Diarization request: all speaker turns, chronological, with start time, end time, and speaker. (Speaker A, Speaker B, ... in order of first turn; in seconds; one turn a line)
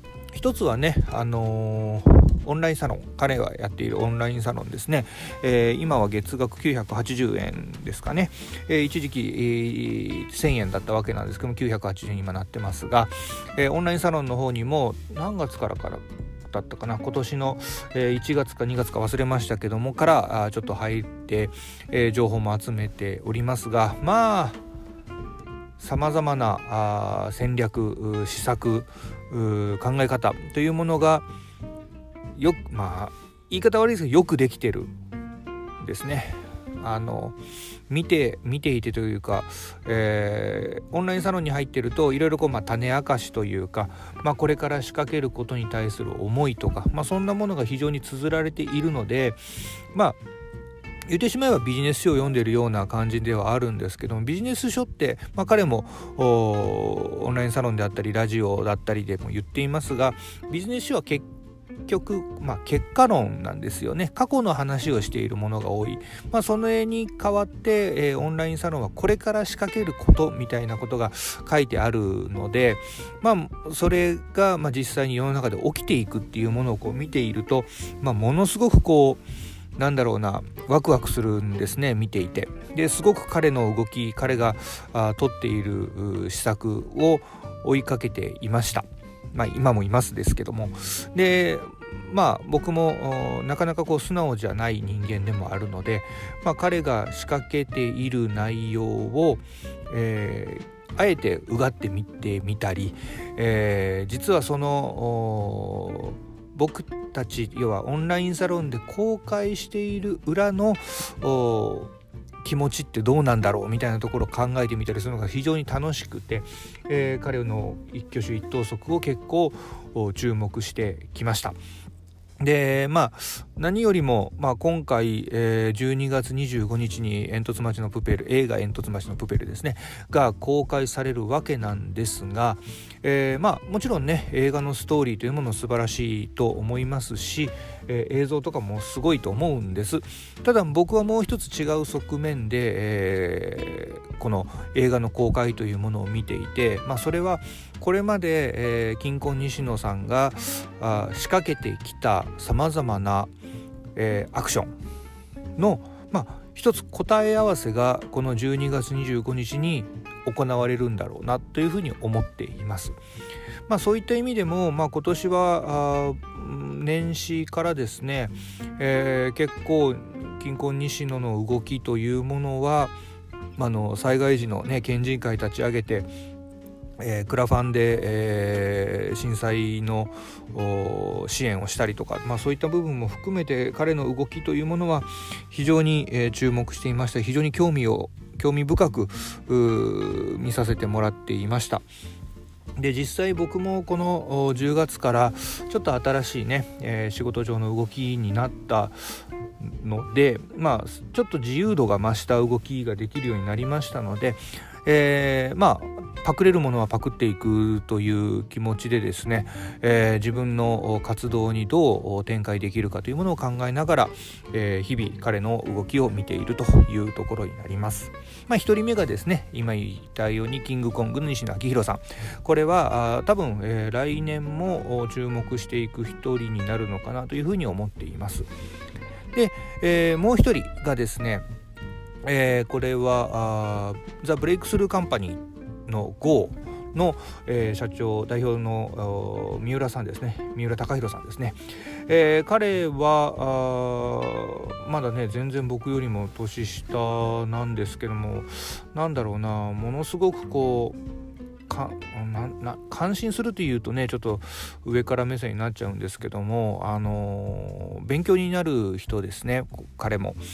Speaker A: 0.3-24.6
Speaker A: 25.8-31.2
Speaker A: 32.3-34.9
Speaker A: 35.8-37.4
Speaker A: 37.9-49.4
Speaker A: 51.1-61.2
Speaker A: 61.9-79.2
Speaker A: 79.8-111.9
Speaker A: 112.4-121.5
Speaker A: 122.4-153.3
Speaker A: 153.9-154.7
Speaker A: 155.6-162.9
Speaker A: 163.7-172.9
Speaker A: 173.6-176.1
Speaker A: 177.0-191.8
Speaker A: 192.8-199.0
Speaker A: 199.6-228.5
Speaker A: 229.3-231.4
Speaker A: 232.2-251.0
Speaker A: 251.7-260.4